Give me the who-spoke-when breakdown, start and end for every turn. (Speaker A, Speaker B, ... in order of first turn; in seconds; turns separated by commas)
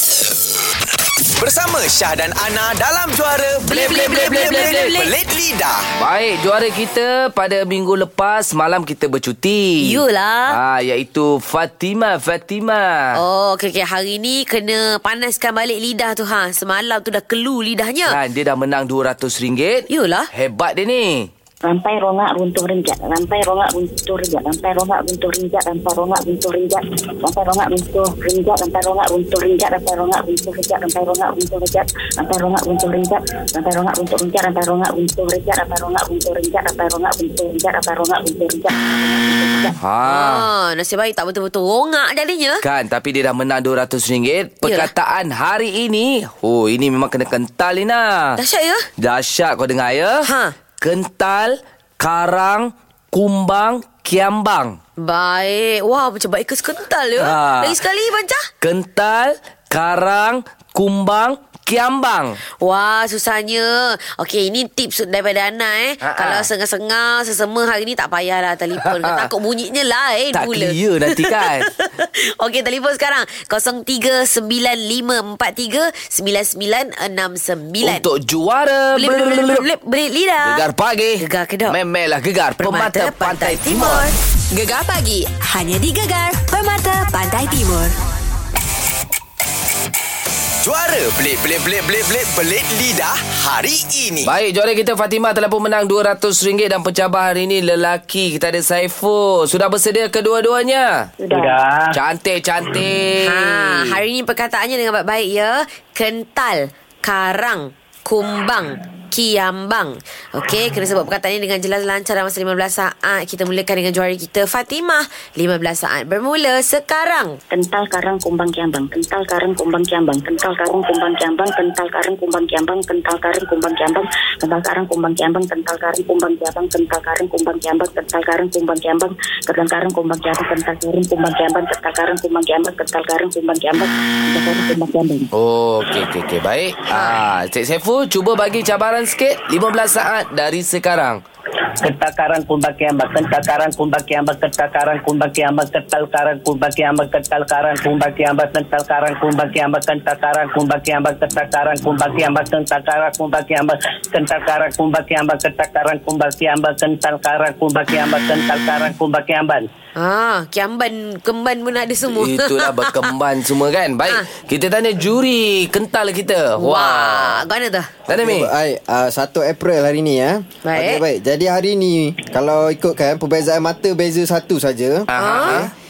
Speaker A: 1.4-5.9, Speaker B: 3.8-4.7, Speaker C: 3.8-4.9, Speaker C: 6.0-13.2, Speaker B: 9.8-10.6, Speaker B: 13.1-18.2, Speaker C: 18.1-21.3, Speaker B: 19.9-20.3, Speaker D: 21.6-39.8, Speaker C: 39.8-40.5, Speaker B: 40.0-42.6, Speaker C: 42.6-48.4, Speaker B: 44.6-44.9, Speaker B: 48.4-48.9, Speaker C: 49.0-50.3, Speaker B: 50.2-50.6, Speaker C: 50.8-54.8, Speaker B: 55.0-58.5, Speaker C: 57.2-57.8, Speaker C: 58.6-62.4, Speaker B: 62.6-78.0, Speaker C: 66.0-66.5, Speaker C: 68.8-69.3, Speaker C: 70.3-71.7, Speaker C: 77.8-79.6, Speaker B: 79.0-80.6, Speaker C: 80.4-84.1, Speaker B: 81.2-81.8, Speaker B: 82.6-84.1, Speaker E: 84.5-87.9, Speaker A: 90.6-94.3, Speaker C: 94.2-101.1, Speaker D: 101.2-101.6, Speaker F: 101.3-101.9, Speaker C: 101.9-104.0, Speaker B: 103.2-117.4, Speaker D: 117.5-135.3, Speaker C: 135.3-141.2, Speaker F: 141.8-159.7, Speaker B: 159.9-163.1, Speaker C: 162.1-167.4, Speaker B: 166.6-167.9, Speaker C: 168.1-168.5, Speaker G: 168.1-175.1, Speaker B: 170.6-171.0, Speaker C: 175.1-175.7, Speaker B: 175.1-175.7